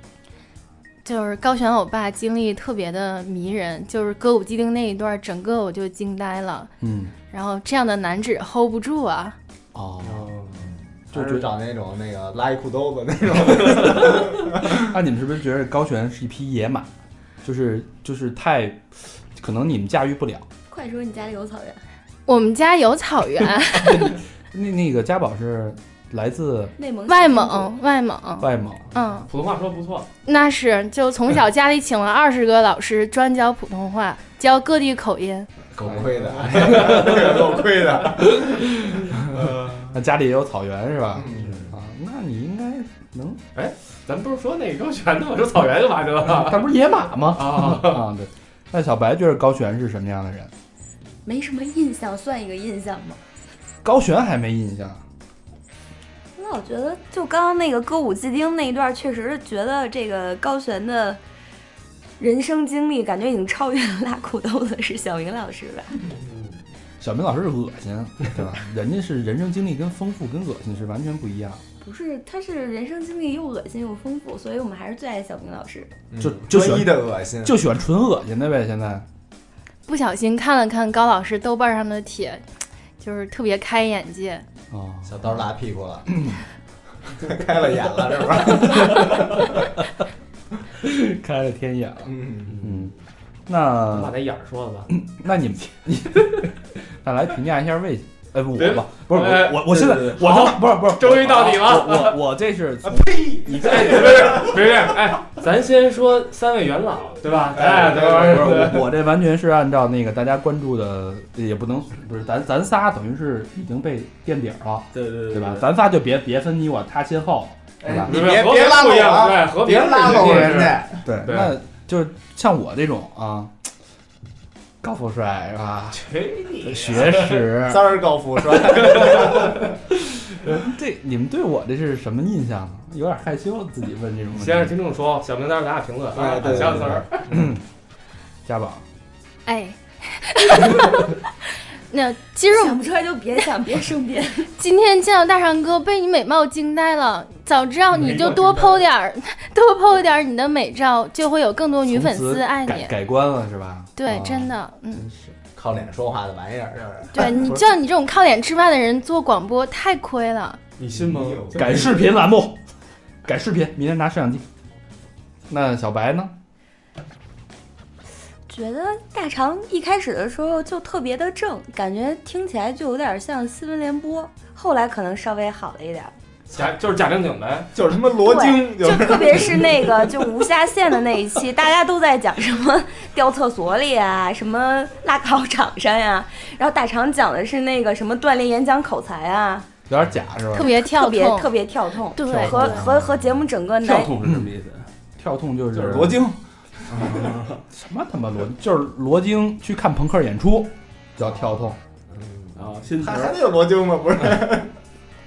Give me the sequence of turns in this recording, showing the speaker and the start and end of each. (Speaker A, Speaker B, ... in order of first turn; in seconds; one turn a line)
Speaker A: 1.1-6.7
Speaker B: 6.8-7.1
Speaker A: 7.3-9.4
Speaker B: 9.7-10.3
Speaker C: 10.0-10.6
Speaker D: 11.1-14.9
Speaker B: 11.1-11.5
Speaker B: 14.6-16.9
Speaker B: 17.4-20.5
Speaker E: 20.7-21.8
Speaker A: 22.3-24.2
Speaker B: 23.7-26.7
Speaker E: 26.8-27.8
Speaker A: 27.1-29.3
Speaker B: 28.4-28.9
Speaker C: 29.3-30.1
Speaker A: 30.3-35.5
Speaker D: 35.7-39.4
Speaker B: 35.9-37.4
Speaker B: 38.3-39.1
Speaker C: 39.2-39.9
Speaker B: 39.9-43.4
Speaker D: 41.1-41.7
Speaker C: 41.4-41.7
Speaker C: 43.5-46.7
Speaker B: 46.2-50.5
Speaker C: 47.4-48.1
Speaker E: 51.2-53.2
Speaker B: 53.8-55.0
Speaker E: 56.4-61.2
Speaker E: 62.2-66.0
Speaker C: 66.3-66.6
Speaker B: 67.0-71.6
Speaker E: 71.8-75.9
Speaker D: 76.1-77.5
Speaker B: 76.2-79.1
Speaker A: 79.9-82.4
Speaker A: 83.0-84.5
Speaker B: 84.7-85.2
Speaker D: 85.0-86.1
Speaker B: 86.1-86.4
Speaker D: 87.1-89.6
Speaker B: 90.8-92.9
Speaker D: 92.0-92.6
Speaker C: 92.5-92.9
Speaker B: 93.5-94.2
Speaker C: 93.9-94.9
Speaker B: 94.9-103.3
Speaker C: 98.6-102.2
Speaker F: 99.8-100.1
Speaker D: 102.8-104.8
Speaker C: 103.5-108.9
Speaker D: 107.5-108.4
Speaker B: 108.0-118.3
Speaker F: 114.9-115.7
Speaker D: 117.8-121.0
Speaker C: 118.0-121.6
Speaker B: 120.1-123.7
Speaker B: 124.8-126.0
Speaker C: 125.9-127.5
Speaker B: 126.6-128.0
Speaker D: 127.5-129.8
Speaker C: 128.9-129.3
Speaker B: 130.1-134.7
Speaker C: 134.3-137.3
Speaker D: 136.1-137.5
Speaker B: 136.4-137.6
Speaker B: 138.5-138.8
Speaker A: 139.5-141.2
Speaker A: 141.9-142.8
Speaker E: 142.5-144.5
Speaker A: 144.6-152.9
Speaker C: 148.0-148.8
Speaker B: 151.8-155.3
Speaker A: 154.0-155.1
Speaker D: 155.5-157.7
Speaker A: 157.1-160.6
Speaker C: 160.8-161.9
Speaker D: 160.9-161.9
Speaker B: 161.6-162.6
Speaker B: 163.2-164.4
Speaker B: 165.5-166.3
Speaker E: 168.5-176.1
Speaker C: 176.5-177.7
Speaker D: 177.8-180.1
Speaker E: 178.2-189.7
Speaker B: 189.9-190.7
Speaker A: 190.5-191.5
Speaker E: 190.5-194.1
Speaker A: 192.1-192.8
Speaker B: 192.3-193.0
Speaker F: 193.8-194.9
Speaker B: 194.2-194.5
Speaker B: 195.2-196.2
Speaker D: 195.7-197.3
Speaker B: 197.7-201.8
Speaker C: 202.1-202.5
Speaker F: 202.6-203.4
Speaker D: 203.0-204.7